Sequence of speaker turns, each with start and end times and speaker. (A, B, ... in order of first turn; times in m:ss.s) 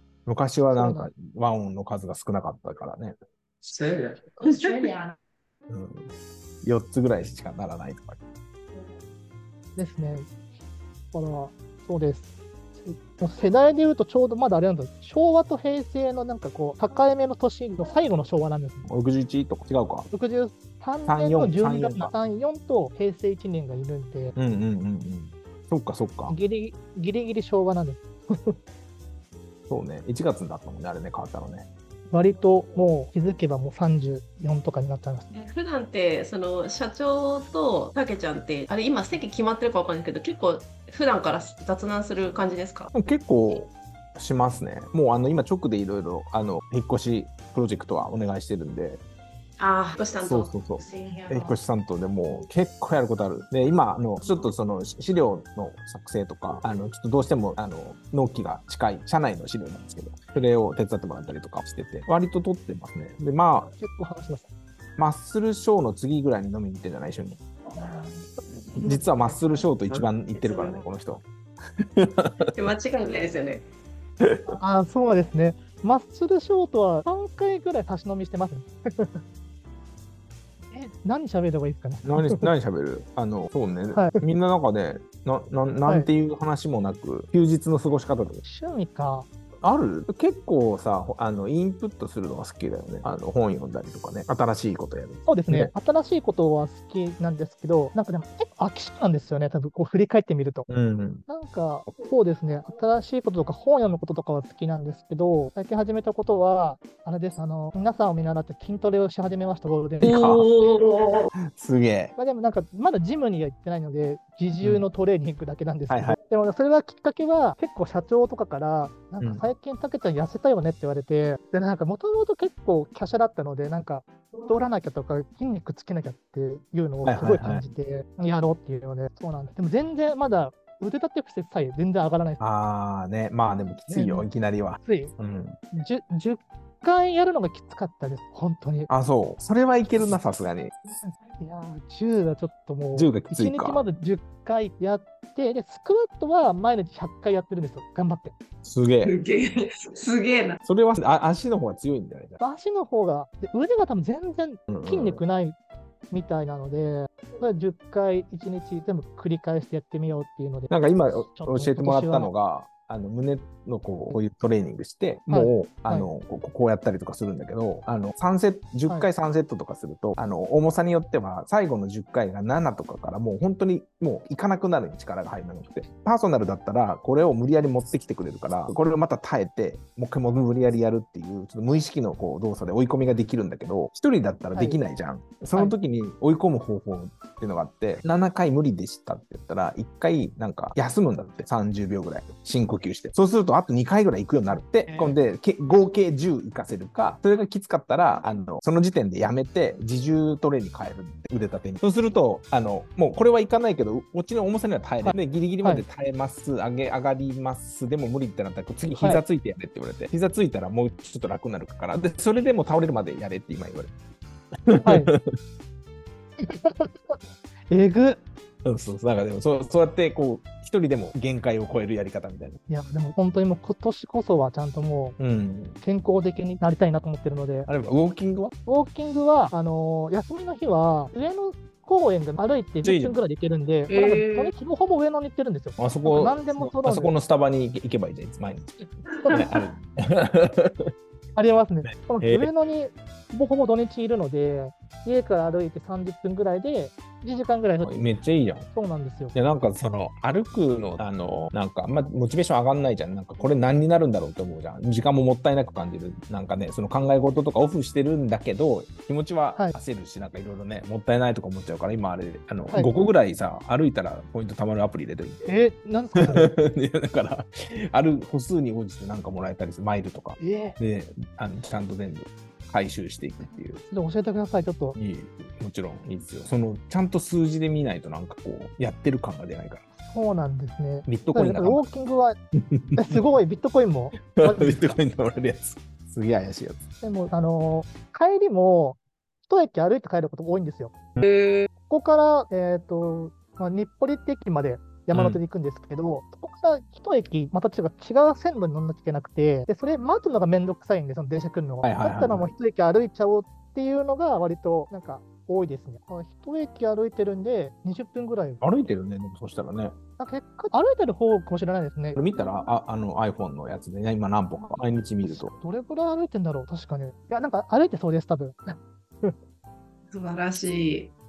0:00.2-0:03.2 A
0:00.7-0:01.1 B
0:03.7-0:05.0 C
0:05.7-0:06.1 A
0:06.6-0:08.2 A
0:09.8-0:10.3 B
0:11.1-0:12.3 B
0:12.8-0:18.9 B
0:18.8-0:20.1 A
0:20.1-0:24.4 B
0:21.1-0:22.1 A
0:24.4-0:26.4 A
0:26.3-0:28.6 B
0:29.7-0:31.7 A
0:32.1-0:35.2 B
0:35.3-0:42.9 C
0:42.9-0:49.0 A
0:49.6-0:51.5 C
0:50.2-1:03.7 A
1:03.7-1:04.5 B
1:05.0-1:07.4 A
1:08.8-1:11.2 A
1:09.9-1:10.8 C
1:11.8-1:12.5 A
1:12.6-1:13.6 C
1:14.2-1:14.6 A
1:14.5-1:19.2 B
1:20.7-1:22.5 B
1:22.1-1:28.4 A
1:28.4-1:29.3 B
1:29.6-1:35.7 A
1:35.3-1:40.7 B
1:40.7-1:41.2 A
1:41.3-1:50.2 B
1:50.0-1:51.3 C
1:50.0-1:50.5 A
1:51.4-1:52.1 A
1:52.2-2:12.4 B
1:55.9-1:56.2 A
2:07.0-2:07.7 A
2:12.4-2:15.6 A
2:13.9-2:14.3 B
2:14.8-2:15.1 B
2:15.7-2:18.9 B
2:18.9-2:20.8 A
2:21.0-2:28.3 B
2:22.9-2:23.8 A
2:28.6-2:29.1 A
2:29.0-2:30.6 C
2:30.6-2:32.4 A
2:32.4-2:35.6 B
2:34.7-2:35.2 A
2:36.1-2:40.7 B
2:40.7-3:33.9 A
2:41.4-2:42.3 B
2:45.3-2:46.1 B
3:04.5-3:04.8 B
3:14.9-3:15.2 B
3:25.0-3:25.8 B
3:29.0-3:29.2 B
3:34.6-3:35.2 A
3:34.8-3:35.1 B
3:36.4-3:37.2 B
3:37.7-3:38.2 B
3:38.6-3:42.6 A
3:42.7-3:45.2 B
3:45.2-3:45.8 A
3:45.8-3:47.7 B
3:47.7-3:48.5 A
3:48.6-3:57.1 B
3:52.8-3:53.2 A
3:53.9-3:54.5 C
3:55.8-4:00.9 A
3:59.1-3:59.5 C
4:01.4-4:07.9 B
4:01.8-4:02.5 A
4:07.8-4:08.7 A
4:08.7-4:09.4 B
4:09.3-4:25.5 A
4:25.5-4:26.5 B
4:26.1-4:33.8 A
4:30.4-4:30.8 B
4:33.9-4:35.0 B
4:35.0-4:39.8 A
4:40.0-4:42.4 B
4:41.1-4:41.8 A
4:42.6-4:43.2 A
4:43.0-4:44.9 B
4:44.4-4:46.8 A
4:47.0-4:50.9 B
4:51.2-4:51.7 C
4:51.9-5:08.6 B
4:55.1-4:55.4 A
5:01.8-5:02.5 A
5:08.6-5:10.0 A
5:10.2-5:12.2 B
5:12.2-5:15.5 A
5:14.6-5:19.4 B
5:20.1-5:21.1 C